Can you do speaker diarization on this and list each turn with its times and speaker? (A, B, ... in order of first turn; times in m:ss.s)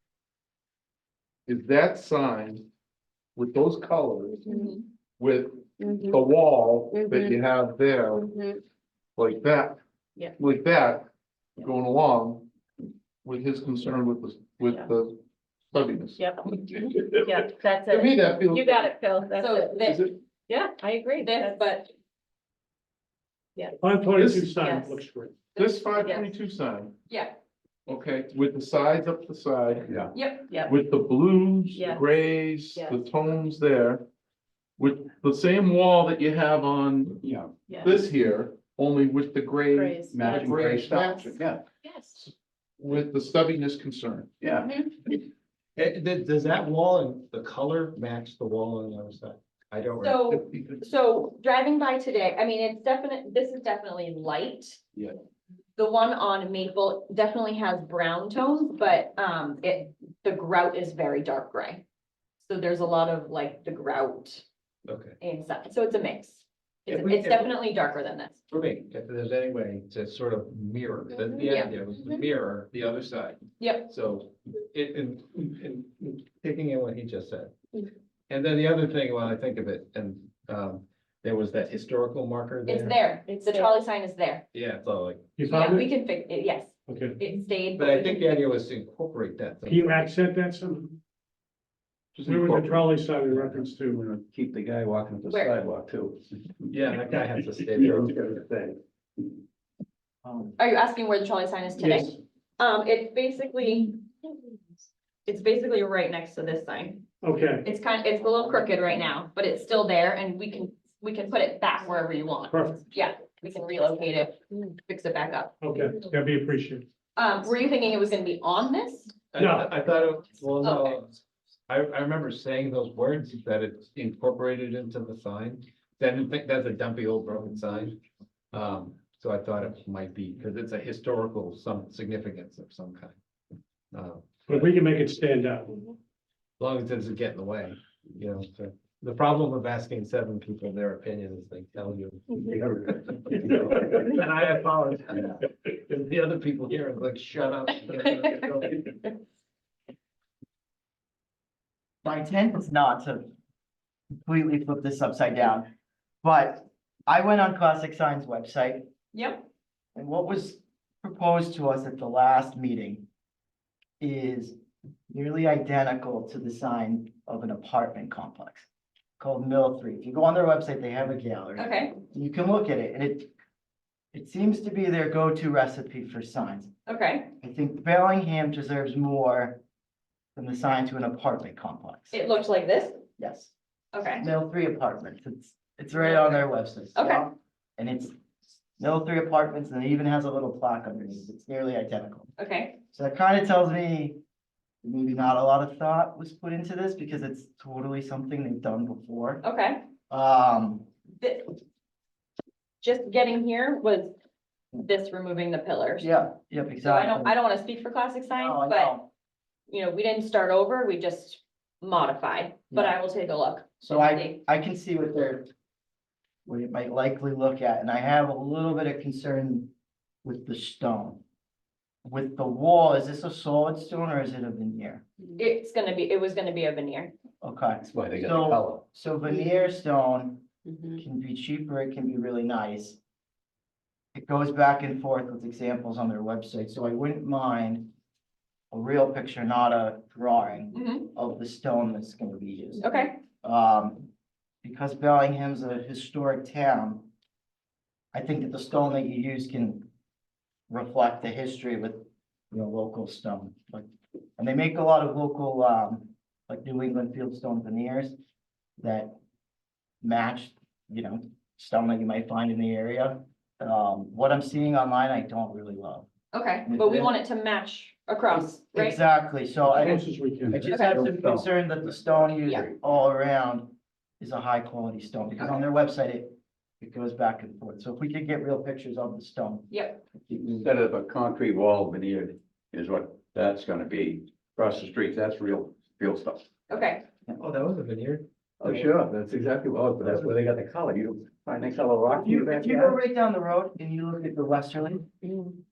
0:01.5-0:02.6 A
0:03.4-0:04.6 A
0:04.5-0:04.8 B
0:05.2-0:08.4 A
0:05.8-0:06.2 C
0:06.9-0:07.4 C
0:08.3-0:08.6 C
0:09.2-0:09.8 A
0:10.4-0:11.1 A
0:11.6-0:12.4 A
0:13.2-0:15.2 A
0:15.7-0:19.0 A
0:17.2-0:19.9 C
0:19.3-0:20.1 B
0:19.8-0:20.2 A
0:20.5-0:21.6 C
0:21.2-0:21.9 B
0:23.8-0:25.3 D
0:24.2-0:24.6 A
0:24.6-0:25.0 C
0:25.6-0:26.3 B
0:25.6-0:26.9 A
0:26.0-0:26.3 C
0:27.1-0:27.4 B
0:27.9-0:29.9 A
0:30.1-0:30.5 B
0:30.5-0:30.8 C
0:30.5-0:34.0 A
0:31.7-0:32.1 C
0:34.8-0:37.2 A
0:37.2-0:37.5 E
0:37.7-0:38.0 C
0:37.8-0:41.4 A
0:39.7-0:40.3 C
0:40.1-0:41.6 E
0:41.8-0:42.2 C
0:42.2-0:44.3 A
0:44.4-0:44.7 E
0:44.6-0:44.9 C
0:45.8-0:50.5 F
0:50.0-0:54.8 B
0:55.8-1:01.8 B
1:02.4-1:04.4 B
1:04.9-1:05.2 F
1:05.2-1:08.4 B
1:06.9-1:07.6 F
1:08.5-1:17.5 F
1:11.4-1:11.7 B
1:13.6-1:13.9 B
1:18.3-1:23.0 F
1:22.7-1:24.4 B
1:24.5-1:25.2 F
1:25.4-1:25.9 D
1:25.4-1:28.3 B
1:26.9-1:27.2 D
1:27.8-1:30.1 F
1:29.7-1:31.0 D
1:32.2-1:36.7 E
1:32.2-1:34.0 D
1:36.7-1:38.4 F
1:37.8-1:38.8 E
1:40.2-1:40.6 G
1:40.6-1:44.0 B
1:41.8-1:42.2 D
1:45.3-1:47.0 B
1:47.2-1:47.7 D
1:47.6-1:55.5 B
1:52.5-1:52.9 D
1:55.6-1:56.8 D
1:57.2-1:59.2 B
1:59.3-2:08.0 F
1:59.4-1:59.7 D
2:00.6-2:01.0 B
2:08.5-2:13.2 F
2:13.9-2:14.7 F
2:14.5-2:16.0 D
2:16.6-2:22.4 F
2:22.4-2:24.0 E
2:23.5-2:28.8 F
2:32.0-2:33.3 G
2:34.2-2:35.7 G
2:36.2-2:38.9 G
2:39.1-2:39.5 B
2:40.0-2:43.1 G
2:44.0-2:44.6 G
2:45.1-2:48.7 G
2:49.2-2:53.3 G
2:51.6-2:51.9 B
2:54.1-2:56.7 G
2:56.9-2:57.3 B
2:57.4-2:59.6 G
3:00.4-3:02.2 G
3:02.1-3:03.0 B
3:03.2-3:03.5 G
3:03.9-3:04.3 B
3:04.2-3:08.1 G
3:06.0-3:06.4 B
3:07.0-3:07.2 B
3:08.8-3:12.3 G
3:12.4-3:12.8 B
3:12.9-3:14.2 G
3:14.8-3:19.4 G
3:19.4-3:19.8 B
3:20.1-3:20.9 G
3:21.2-3:21.6 B
3:22.8-3:24.1 B
3:24.8-3:26.1 B
3:26.0-3:27.4 G
3:26.8-3:28.9 B
3:28.4-3:29.1 G
3:29.7-3:34.4 B
3:32.7-3:33.0 G
3:33.8-3:35.5 G
3:36.5-3:39.7 G
3:40.2-3:41.2 G
3:42.0-3:45.0 G
3:45.4-3:47.1 B
3:47.4-3:53.0 G
3:47.8-3:48.8 E
3:54.2-3:57.9 G
3:58.7-4:02.9 G
4:00.7-4:01.1 B
4:02.8-4:03.2 B
4:03.4-4:04.1 G
4:04.6-4:07.1 G
4:08.1-4:09.9 G
4:10.7-4:13.9 G
4:14.4-4:18.2 G
4:18.8-4:19.2 G
4:20.0-4:26.1 G
4:26.3-4:29.0 B
4:26.7-4:27.1 G
4:28.7-4:39.7 G
4:29.7-4:30.7 D
4:30.5-4:31.5 E
4:39.7-4:40.0 B
4:40.3-4:46.5 E
4:46.7-4:47.0 B
4:47.4-4:48.8 F
4:48.6-4:53.0 E
4:52.2-4:55.1 G